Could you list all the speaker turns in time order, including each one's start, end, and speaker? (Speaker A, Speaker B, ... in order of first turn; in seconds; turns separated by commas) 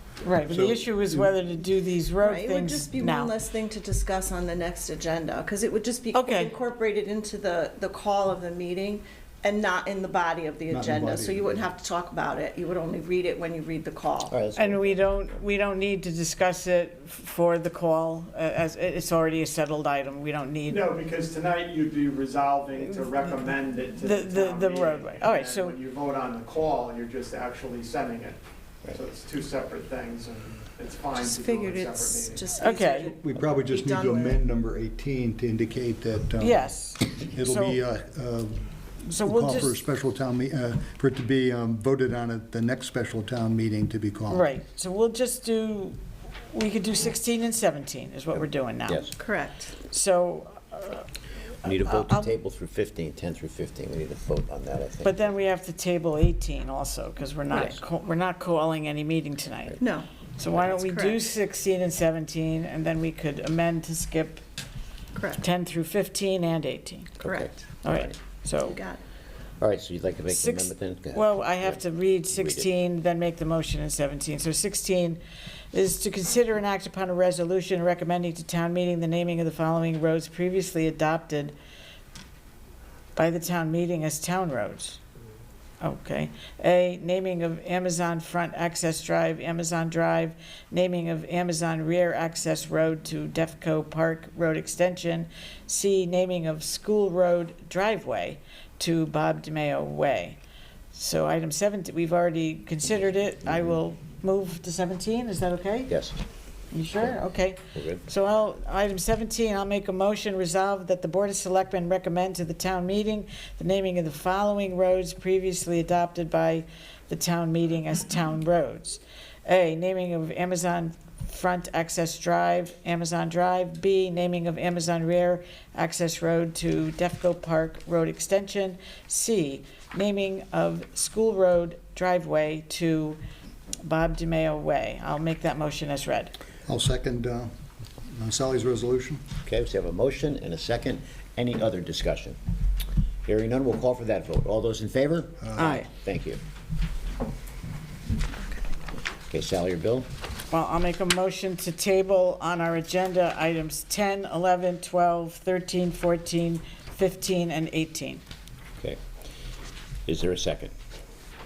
Speaker A: 0.2-3.3, Speaker B: 0.5-1.3, Speaker C: 2.2-14.4, Speaker A: 6.1-6.5, Speaker B: 10.7-11.6, Speaker D: 14.3-15.1, Speaker A: 14.6-20.9, Speaker E: 20.7-32.5, Speaker A: 24.0-25.8, Speaker C: 31.1-34.4, Speaker A: 32.6-33.1, Speaker B: 33.1-44.5, Speaker A: 36.4-37.8, Speaker A: 39.1-39.8, Speaker A: 44.3-46.0, Speaker A: 46.5-49.1, Speaker D: 48.9-49.1, Speaker C: 49.1-49.8, Speaker A: 49.9-51.1, Speaker A: 51.6-52.3, Speaker D: 51.6-55.2, Speaker A: 55.0-59.8, Speaker D: 57.5-57.8, Speaker C: 59.8-60.1, Speaker A: 60.4-64.4, Speaker C: 60.6-61.2, Speaker C: 65.1-65.4, Speaker A: 65.4-67.2, Speaker D: 67.2-68.2, Speaker C: 67.2-67.5, Speaker A: 67.8-68.8, Speaker C: 68.6-69.0, Speaker D: 69.6-72.7, Speaker A: 70.3-75.2, Speaker A: 75.7-81.5, Speaker A: 83.2-85.0, Speaker A: 85.8-100.4, Speaker A: 100.9-105.9, Speaker D: 105.9-106.2, Speaker A: 106.7-133.2, Speaker D: 107.7-108.0, Speaker A: 133.8-136.3, Speaker B: 136.7-137.5, Speaker B: 138.1-139.2, Speaker D: 139.5-142.4, Speaker D: 143.2-146.4, Speaker B: 145.4-145.8, Speaker A: 145.6-145.9, Speaker C: 148.4-148.6, Speaker D: 149.3-150.1, Speaker A: 150.5-158.2, Speaker D: 160.1-160.7